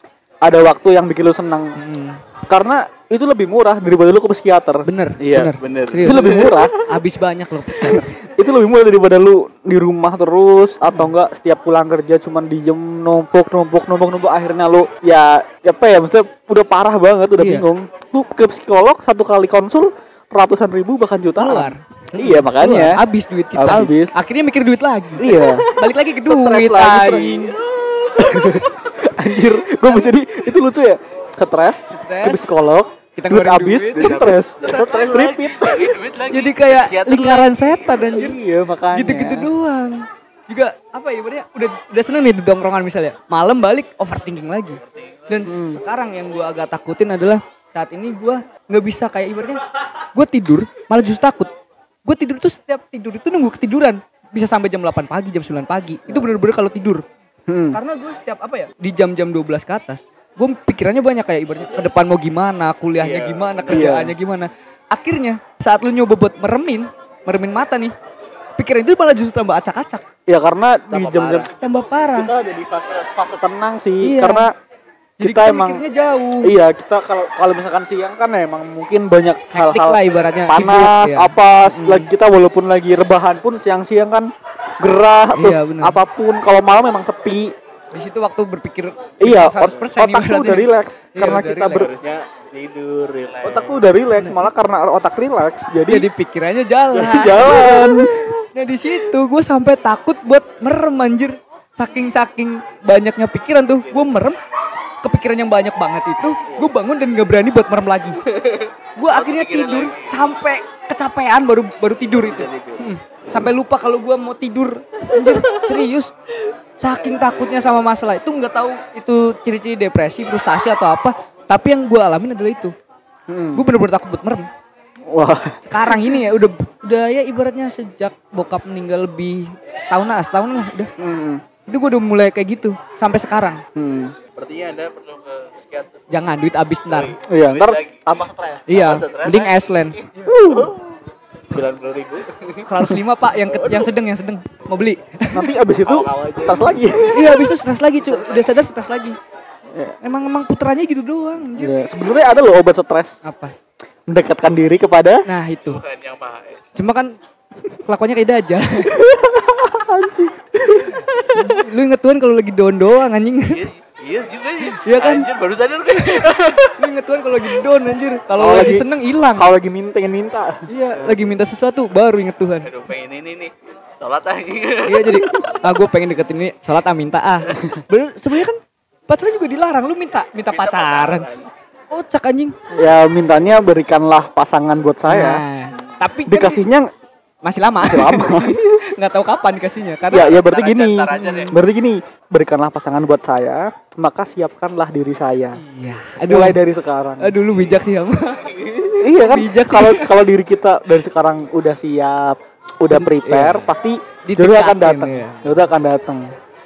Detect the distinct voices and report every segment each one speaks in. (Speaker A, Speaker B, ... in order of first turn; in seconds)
Speaker A: 0.4-1.8, 2.5-4.8, 6.0-6.7, 7.8-23.0, 23.6-24.1, 25.2-25.7, 27.0-27.3, 28.2-36.0, 38.1-39.5, 45.5-45.8, 57.5-57.8, 63.7-64.1, 70.3-71.5, 72.1-74.5, 75.2-75.8, 76.4-87.5, 89.2-91.9, 93.4-96.1, 96.9-98.3, 123.3-123.6, 125.1-126.2, 131.0-131.4, 133.8-134.2, 137.3-138.7, 140.2-140.7, 145.3-147.2, 151.6-153.2, 154.1-155.2, 158.9-161.0, 168.3-170.6, 182.7-185.4, 186.3-186.9, 187.8-188.6, 190.1-195.6, 196.3-197.3, 199.0-206.3
Speaker B: 1.8-2.2, 4.8-8.1, 17.4-17.7, 21.4-27.5, 29.8-30.1, 31.9-32.4, 33.2-34.2, 36.3-38.4, 38.9-49.6, 50.1-51.5, 52.1-57.0, 57.7-67.9, 68.6-70.0, 71.6-72.3, 74.0-74.5, 75.2-76.5, 79.5-82.1, 85.4-86.0, 87.9-91.9, 94.1-94.4, 95.9-104.4, 105.0-108.2, 109.0-116.1, 116.8-122.8, 123.5-124.5, 125.6-130.9, 131.7-133.6, 136.1-137.2, 138.7-140.0, 142.6-145.5, 147.1-149.2, 150.0-151.7, 153.2-153.5, 155.2-155.8, 156.8-157.1, 157.9-158.9, 161.3-163.7, 164.6-165.3, 165.9-169.5, 170.7-172.7, 174.8-181.3, 181.9-182.6, 185.1-186.6, 187.4-190.3, 191.2-191.6, 195.6-196.6, 197.2-198.6, 199.2-200.1, 202.9-203.7, 204.3-205.7
Speaker C: 5.2-6.7, 23.6-23.9, 25.9-28.7, 33.9-38.1, 44.8-45.5, 61.6-62.0, 63.0-63.9, 70.9-71.5, 91.7-93.8, 103.8-104.1, 106.5-106.7, 108.2-110.3, 112.1-112.9, 115.2-115.8, 117.0-117.8, 134.3-136.1, 136.9-138.1, 138.7-141.0, 141.5-142.7, 143.4-143.9, 145.8-147.4, 148.0-148.5, 155.7-156.7, 163.5-166.8, 170.9-171.3, 172.6-175.6, 180.5-181.5, 190.1-191.6, 198.3-199.1